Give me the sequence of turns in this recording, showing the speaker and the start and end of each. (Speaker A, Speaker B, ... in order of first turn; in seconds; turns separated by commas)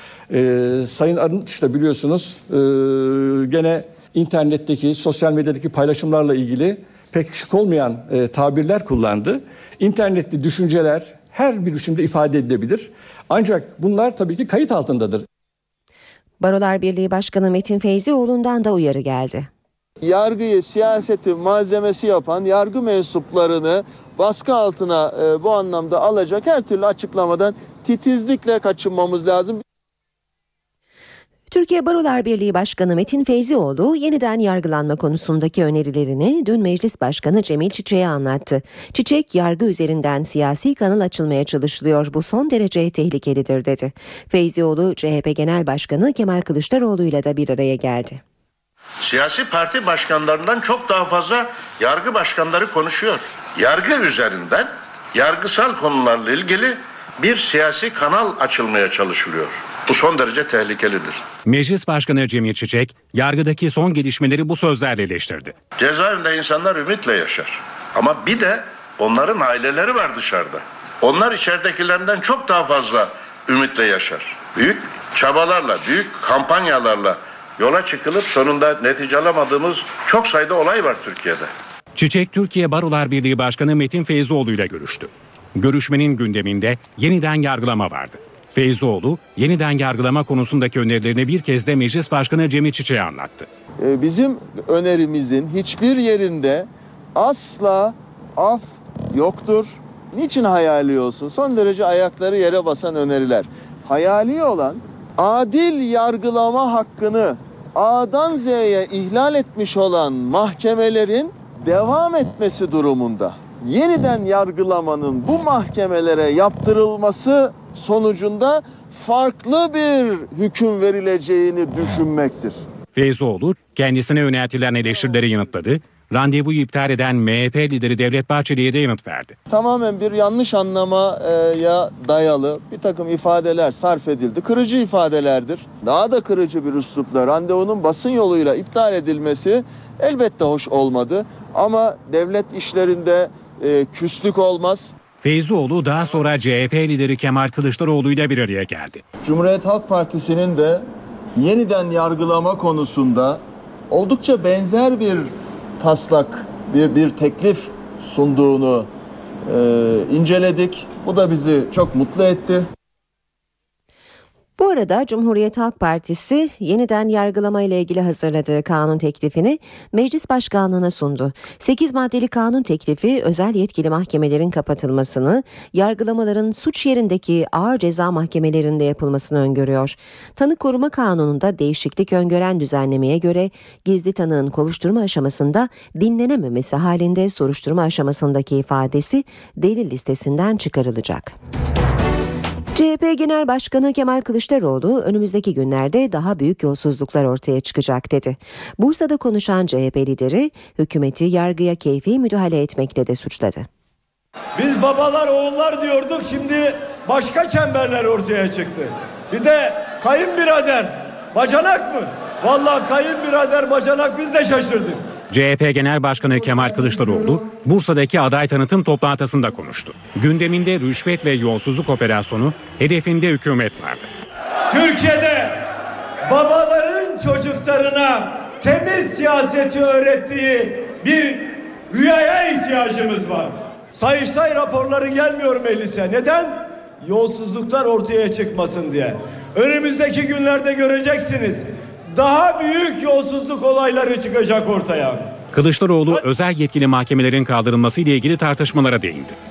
Speaker A: 0.3-15.2, Speaker B: 16.4-19.5, Speaker C: 20.0-29.6, Speaker B: 31.5-48.2, Speaker D: 49.0-61.2, Speaker E: 61.5-65.5, Speaker D: 65.8-81.5, Speaker E: 82.0-93.5, Speaker C: 93.8-122.6, Speaker E: 122.9-129.3, Speaker C: 129.5-144.9, Speaker E: 145.2-149.0, Speaker C: 149.2-150.8, Speaker C: 151.3-155.3, Speaker C: 155.8-158.9, Speaker C: 159.5-162.7, Speaker B: 164.6-191.3, Speaker B: 192.7-203.7, Speaker F: 204.6-215.0, Speaker E: 215.3-224.1, Speaker F: 224.7-225.6, Speaker F: 226.3-245.3, Speaker E: 245.5-249.4